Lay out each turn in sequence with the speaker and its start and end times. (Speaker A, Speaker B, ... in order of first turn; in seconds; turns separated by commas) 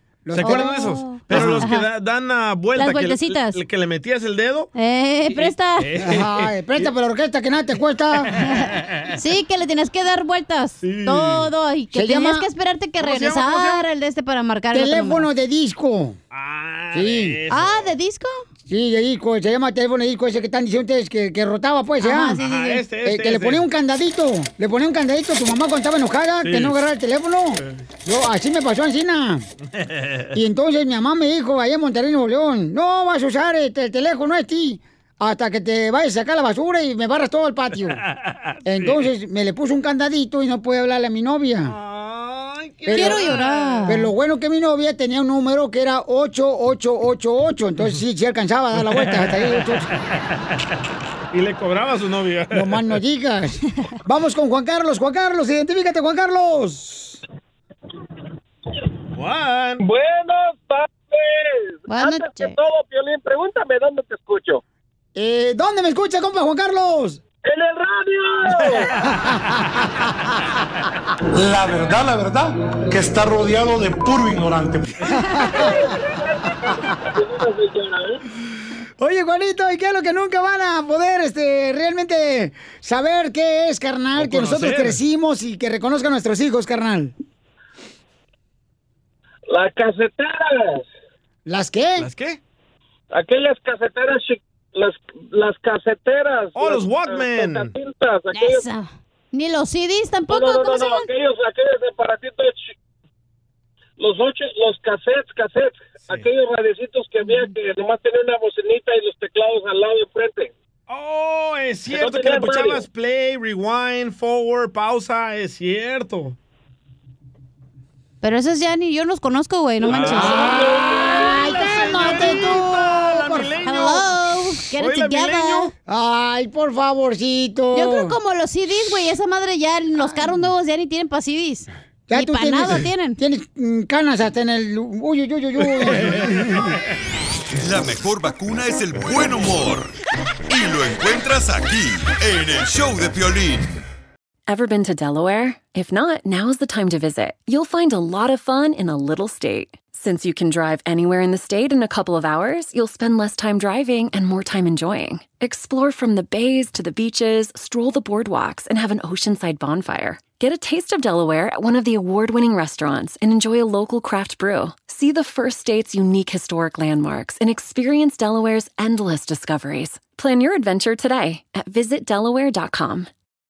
Speaker A: 0.2-1.7, Speaker B: 0.3-4.7, Speaker C: 0.4-1.9, Speaker C: 2.8-3.6, Speaker C: 4.7-5.8, Speaker B: 5.3-6.9, Speaker A: 6.0-8.3, Speaker C: 8.4-15.2, Speaker B: 10.8-11.5, Speaker A: 11.9-12.5, Speaker B: 13.0-13.8, Speaker A: 14.7-16.2, Speaker B: 16.3-17.9, Speaker A: 16.9-17.4, Speaker C: 17.5-18.4, Speaker A: 18.7-22.4, Speaker C: 22.0-22.8, Speaker B: 22.4-23.6, Speaker A: 23.0-29.4, Speaker B: 26.4-26.8, Speaker B: 29.8-30.3, Speaker A: 30.3-38.0, Speaker B: 38.2-39.0, Speaker A: 38.6-41.7, Speaker B: 41.6-43.8, Speaker A: 42.8-43.3, Speaker C: 42.9-44.1, Speaker A: 43.8-49.9, Speaker B: 48.8-49.7, Speaker B: 51.3-53.0, Speaker A: 52.5-57.2, Speaker B: 59.1-59.8, Speaker D: 59.8-64.6, Speaker C: 61.9-62.6, Speaker A: 65.1-67.2, Speaker D: 67.4-68.9, Speaker B: 68.5-68.9, Speaker A: 69.0-70.0, Speaker E: 71.4-74.8, Speaker A: 75.1-75.9, Speaker D: 75.8-78.2, Speaker A: 79.0-87.1, Speaker B: 84.2-85.0, Speaker D: 89.5-90.9, Speaker A: 91.5-92.1, Speaker B: 92.0-92.4, Speaker D: 93.1-98.7, Speaker B: 96.5-97.7, Speaker C: 98.3-101.1, Speaker D: 100.3-102.7, Speaker D: 104.0-110.5, Speaker B: 106.0-106.3, Speaker C: 107.2-107.5, Speaker B: 110.9-116.3, Speaker D: 111.9-112.8, Speaker C: 118.2-120.7, Speaker B: 119.8-124.1, Speaker A: 119.9-123.5, Speaker C: 123.6-125.7, Speaker B: 124.7-125.7, Speaker A: 125.9-128.1, Speaker C: 127.7-133.2, Speaker A: 130.0-130.4, Speaker A: 132.1-136.8, Speaker B: 135.8-136.7, Speaker F: 137.6-139.9, Speaker F: 140.5-143.8, Speaker G: 144.5-173.1